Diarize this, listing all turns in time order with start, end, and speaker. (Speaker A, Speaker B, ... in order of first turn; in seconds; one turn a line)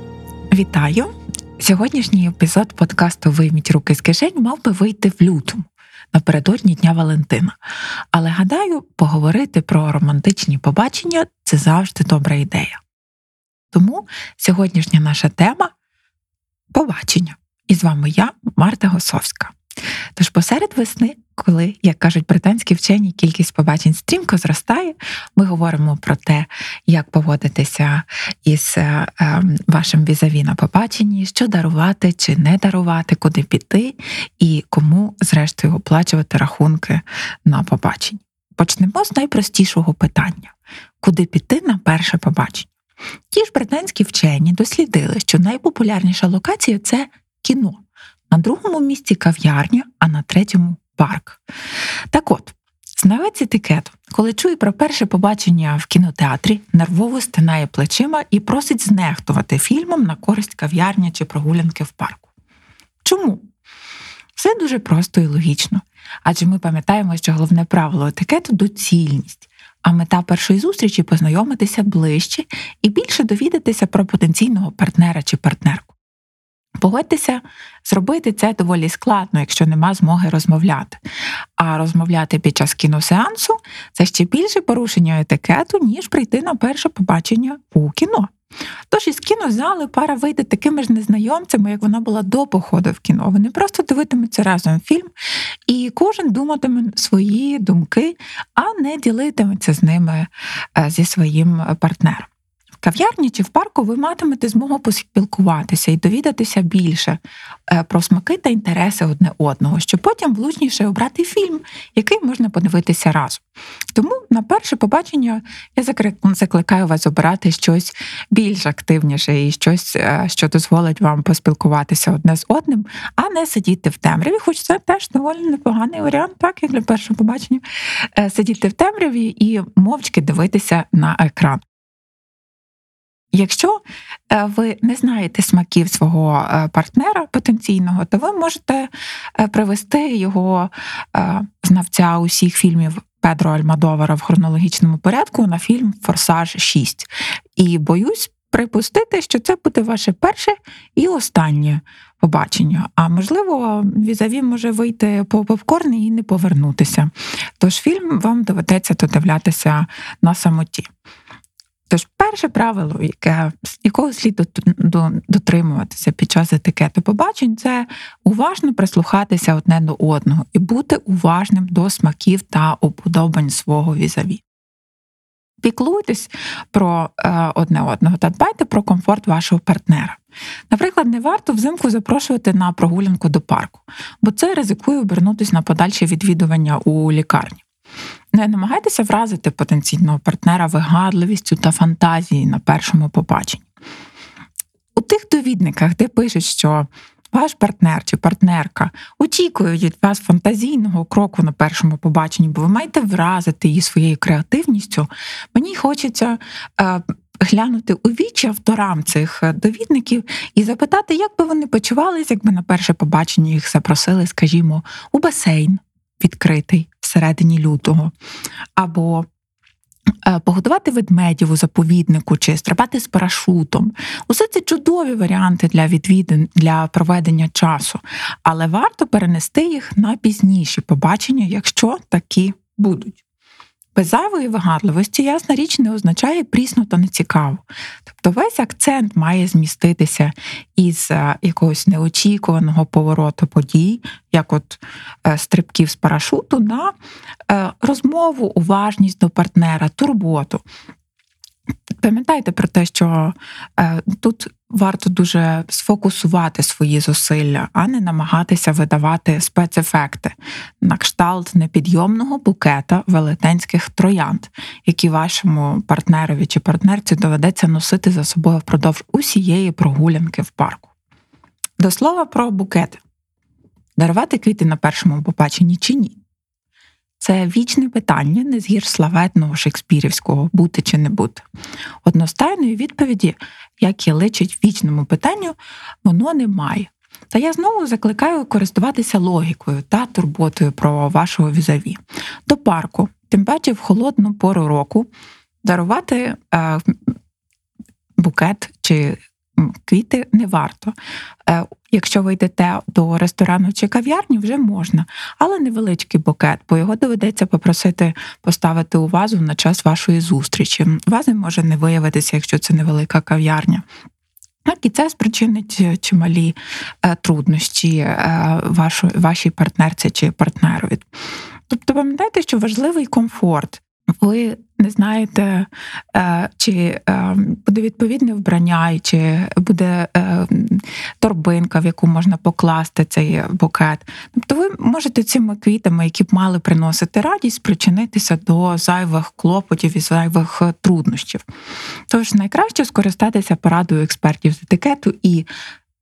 Speaker A: 0.5-7.6
Speaker A: 8.1-12.8
Speaker A: 13.7-15.7
Speaker A: 16.7-19.6
Speaker A: 20.2-42.7
Speaker A: 43.3-51.4
Speaker A: 52.1-62.3
Speaker A: 63.0-63.5
Speaker A: 64.4-75.9
Speaker A: 76.8-81.0
Speaker A: 81.6-88.3
Speaker A: 88.9-95.1
Speaker A: 95.7-102.3
Speaker A: 102.8-113.4
Speaker A: 113.9-131.6
Speaker A: 133.3-160.9
Speaker A: 161.9-174.4
Speaker A: 175.6-180.2
Speaker A: 180.7-187.6
Speaker A: 188.3-193.7
Speaker A: 195.0-218.1
Speaker A: 218.8-219.3
Speaker A: 220.2-233.2
Speaker A: 233.9-246.9
Speaker A: 247.5-250.6
Speaker A: 252.0-270.9
Speaker A: 271.8-273.0
Speaker A: 274.0-276.2
Speaker A: 277.2-281.4
Speaker A: 282.1-295.1
Speaker A: 295.6-297.1
Speaker A: 298.2-300.9
Speaker A: 301.5-313.8
Speaker A: 314.6-321.1
Speaker A: 321.7-341.4
Speaker A: 342.1-345.5